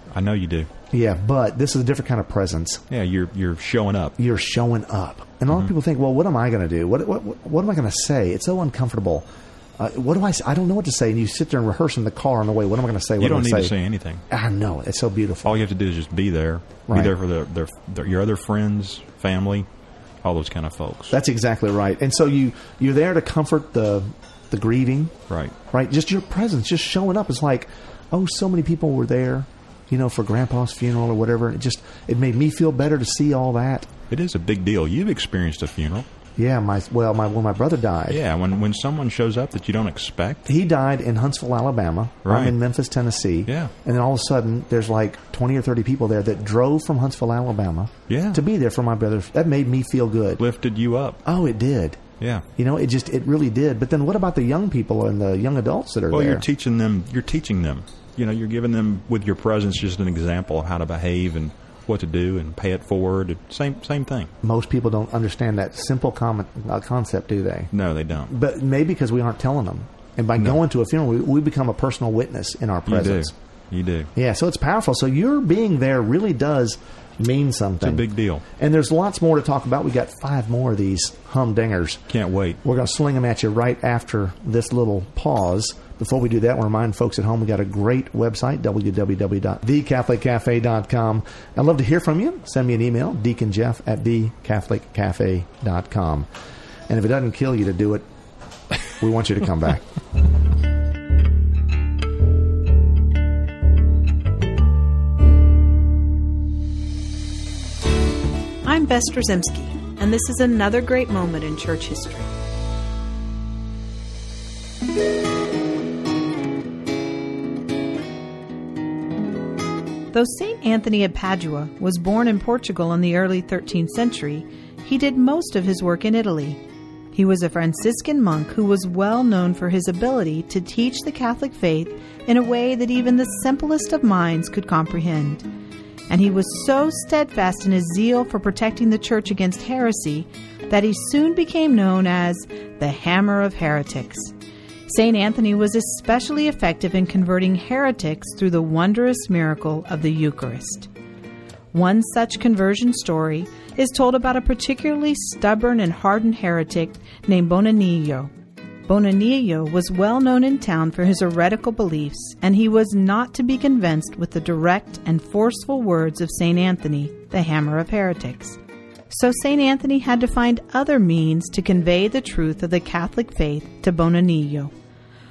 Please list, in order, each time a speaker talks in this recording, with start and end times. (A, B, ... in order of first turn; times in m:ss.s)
0:00.1-0:00.7 A
0:00.9-0:02.8 B
0:02.9-0:04.2 A
0:04.2-0:09.3 B
0:09.8-0:13.7 B
0:13.2-0:14.2 A
0:14.3-0:15.6 B
0:15.4-0:19.7 A
0:16.9-0:17.1 B
0:20.2-0:21.1 A
0:21.1-0:25.2 B
0:25.3-0:25.6 A
0:25.7-0:33.9 B
0:34.1-0:36.1 A
0:36.4-0:38.2 B
0:38.1-0:40.5 A
0:40.5-0:50.4 B
0:42.2-0:42.6 A
0:43.5-0:43.7 A
0:48.1-0:48.4 A
0:50.4-0:51.2 A
0:51.2-0:52.0 B
0:52.2-0:52.4 A
0:52.6-0:56.5 B
0:56.1-1:04.3 A
1:04.4-1:07.7 B
1:07.7-1:08.3 A
1:08.3-1:13.3 B
1:12.9-1:14.1 A
1:14.2-1:22.0 B
1:17.8-1:18.4 A
1:22.1-1:22.6 A
1:22.6-1:36.3 B
1:36.9-1:38.0 B
1:39.0-1:39.8 B
1:48.6-1:52.3 C
2:00.1-2:06.6 C
2:07.1-2:15.4 C
2:16.1-2:24.3 C
2:24.9-2:30.9 C
2:31.7-2:38.3 C
2:38.9-2:54.7 C